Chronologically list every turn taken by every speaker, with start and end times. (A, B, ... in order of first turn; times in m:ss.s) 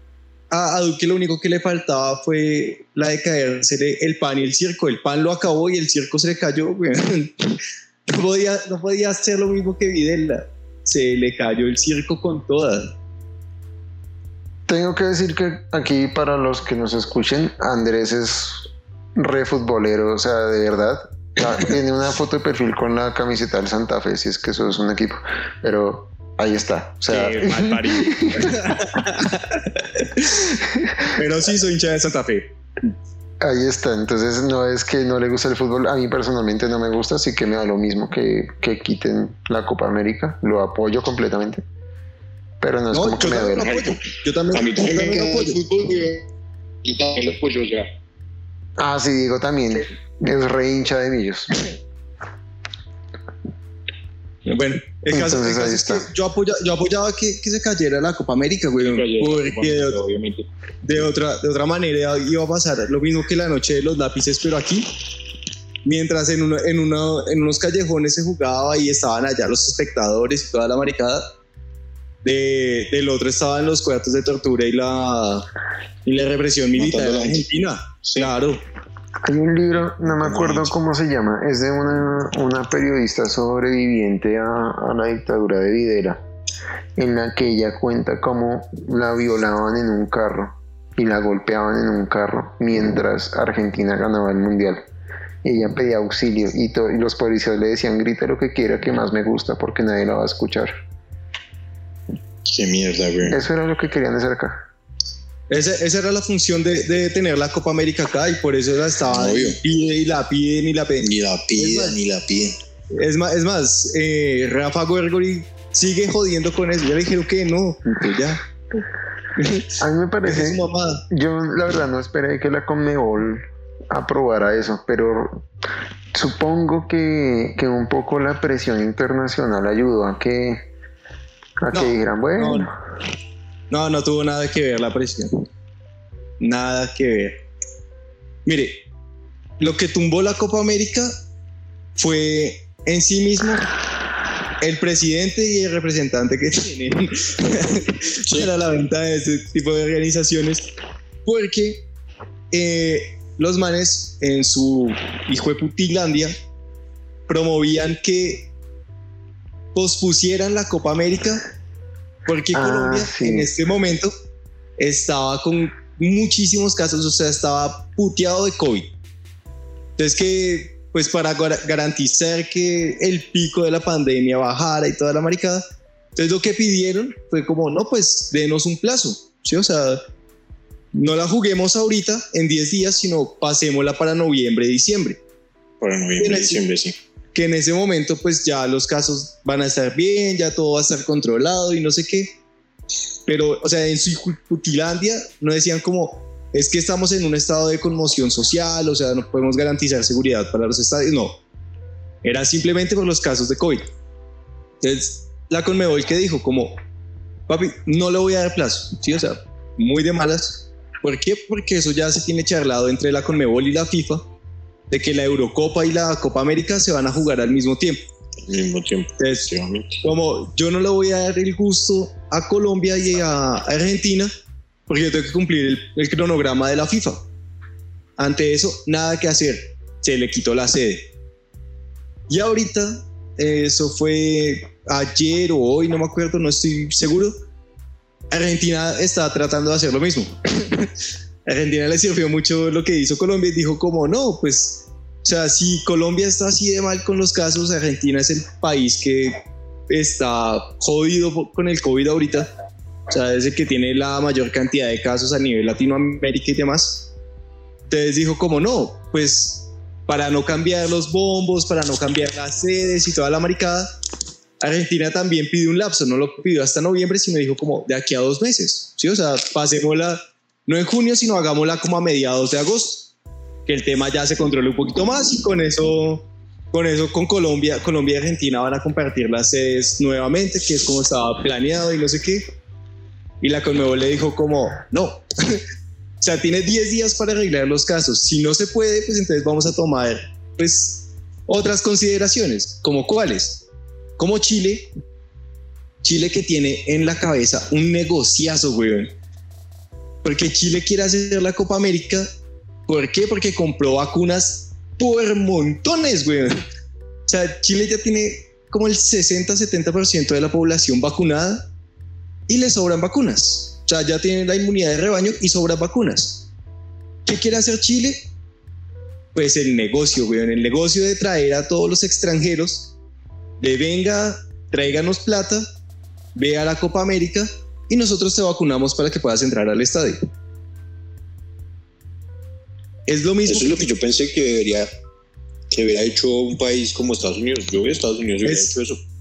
0:00.5-0:12.9 A
0:14.7-0:28.6 B
0:27.1-0:30.5 A
0:30.4-0:31.1 B
0:31.0-0:32.5 A
0:33.4-0:41.6 B
0:42.6-0:43.8 B
0:42.9-0:45.6 A
0:43.5-0:44.0 C
0:44.5-0:46.2 C
0:46.8-0:47.9 C
0:48.8-0:51.6 B
0:54.4-1:00.0 A
0:55.1-0:56.1 B
0:58.8-1:00.4 C
1:00.8-1:04.9 A
1:05.8-1:11.2 A
1:12.2-1:15.5 A
1:16.0-1:18.6 A
1:16.8-1:17.4 C
1:18.0-1:18.3 C
1:19.2-1:26.2 B
1:19.9-1:20.7 C
1:27.0-1:34.8 B
1:35.4-1:40.7 B
1:42.5-1:43.4 C
1:43.2-1:44.6 B
1:45.5-1:52.0 A
1:49.1-1:49.6 C
1:51.0-1:52.6 C
1:52.9-1:58.4 A
1:59.4-1:59.7 A
1:59.8-2:05.4 B
2:00.2-2:01.0 A
2:06.1-2:10.6 B
2:11.6-2:12.7 B
2:11.7-2:12.7 A
2:13.7-2:15.5 A
2:16.4-2:17.4 A
2:18.4-2:18.8 A
2:19.6-2:21.1 A
2:22.0-2:23.7 A
2:24.6-2:30.7 A
2:28.2-2:28.5 C
2:31.2-2:31.8 A
2:32.5-2:36.4 A
2:37.3-2:38.5 A
2:39.7-2:41.4 A
2:42.2-2:44.1 A
2:42.5-2:43.5 B
2:44.8-2:48.9 A
2:50.0-2:55.6 A
2:56.1-3:00.0 A
3:00.9-3:05.2 A
3:05.8-3:06.9 C
3:06.2-3:06.6 A
3:07.3-3:12.4 A
3:13.3-3:21.4 A
3:22.2-3:23.9 A
3:24.8-3:26.8 A
3:27.5-3:34.2 A
3:34.9-3:38.0 A
3:38.5-3:40.0 C
3:39.2-3:39.5 A
3:40.0-3:44.3 A
3:44.9-3:47.2 A
3:48.2-3:51.1 A
3:52.3-3:57.4 A
3:58.3-4:00.9 A
4:01.4-4:12.5 A
4:13.1-4:17.1 A
4:17.9-4:23.9 A
4:24.6-4:33.1 A
4:33.6-4:42.5 A
4:43.4-4:45.6 A
4:46.2-4:53.6 A
4:54.2-4:54.9 A
4:56.0-4:59.1 A
5:00.2-5:02.3 A
5:02.9-5:06.6 A
5:07.3-5:11.7 A
5:12.5-5:16.5 A
5:17.2-5:18.2 A
5:19.3-5:22.9 A
5:23.6-5:25.7 A
5:26.3-5:30.2 A
5:33.1-5:33.8 A
5:33.5-5:34.9 C
5:35.7-5:39.0 C
5:38.4-5:38.7 A